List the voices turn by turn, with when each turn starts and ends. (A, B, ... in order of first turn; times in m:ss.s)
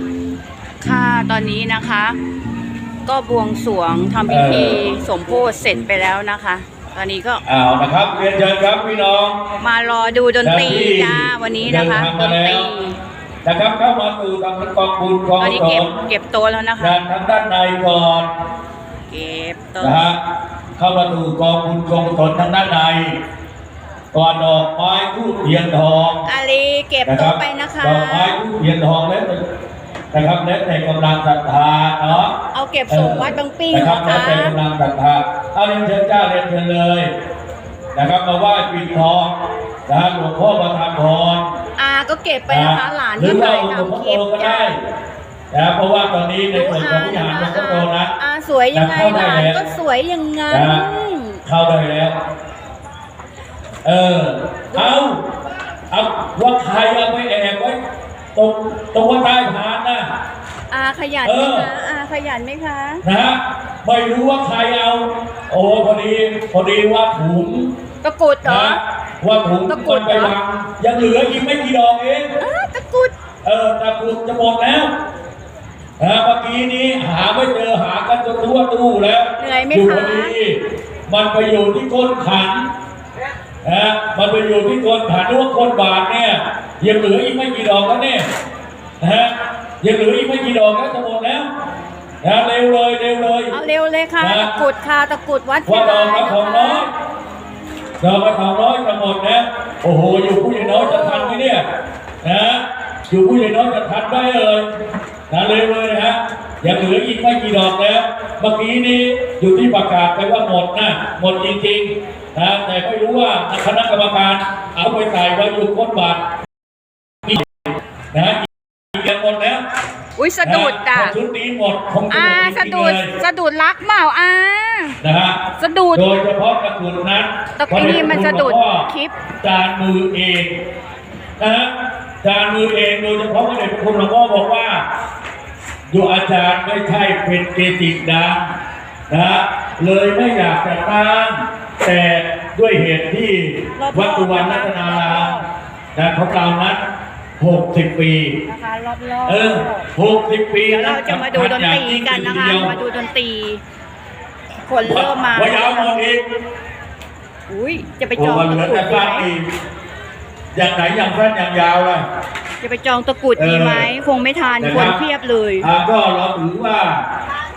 0:00.8-0:02.2 A
0:03.0-0:07.4 A
0:04.3-0:04.8 B
0:07.5-0:09.4 B
0:09.6-0:13.0 A
0:10.4-0:12.7 B
0:13.4-0:16.0 B
0:15.4-0:17.0 A
0:16.8-0:18.3 B
0:19.1-0:20.1 A
0:19.8-0:20.2 B
0:20.8-0:23.2 B
0:24.1-0:26.2 B
0:26.2-0:28.4 A
0:27.1-0:29.4 B
0:30.1-0:32.3 B
0:32.5-0:34.6 A
0:32.9-0:37.1 B
0:38.0-0:39.3 B
0:39.9-0:41.5 B
0:41.8-0:44.7 A
0:42.5-0:44.8 B
0:45.5-0:48.1 B
0:46.5-0:51.4 A
0:48.7-0:49.6 B
0:50.5-0:50.8 B
0:51.4-0:52.2 B
0:53.8-0:55.2 B
0:54.7-0:55.0 A
0:55.9-0:57.8 B
0:58.4-1:00.0 B
1:00.7-1:03.0 A
1:01.2-1:01.7 B
1:03.0-1:07.7 B
1:08.0-1:08.8 A
1:08.4-1:12.3 B
1:09.6-1:10.4 A
1:12.4-1:13.1 A
1:13.4-1:14.9 B
1:16.0-1:20.6 B
1:19.4-1:20.4 A
1:21.1-1:22.7 B
1:23.6-1:28.2 B
1:29.0-1:31.5 B
1:32.2-1:33.6 B
1:33.5-1:36.9 A
1:34.2-1:34.5 B
1:35.7-1:36.9 B
1:38.0-1:41.6 B
1:40.6-1:41.4 A
1:42.2-1:44.7 B
1:45.3-1:56.2 B
1:58.1-1:59.6 B
2:00.2-2:01.2 A
2:00.4-2:03.1 B
2:02.1-2:05.0 A
2:05.0-2:05.4 B
2:05.6-2:06.1 A
2:05.9-2:08.9 B
2:07.6-2:09.1 A
2:09.4-2:10.5 B
2:11.4-2:11.7 B
2:12.2-2:14.8 B
2:15.9-2:18.4 B
2:19.1-2:25.3 B
2:23.8-2:25.5 A
2:26.0-2:26.8 B
2:27.4-2:28.4 B
2:28.5-2:29.9 A
2:29.3-2:32.7 B
2:30.7-2:33.6 A
2:34.7-2:36.0 A
2:34.8-2:36.2 B
2:37.5-2:39.3 A
2:38.2-2:39.4 B
2:40.6-2:42.0 B
2:42.6-2:45.7 A
2:43.4-2:43.9 B
2:44.6-2:45.0 B
2:45.6-2:47.0 B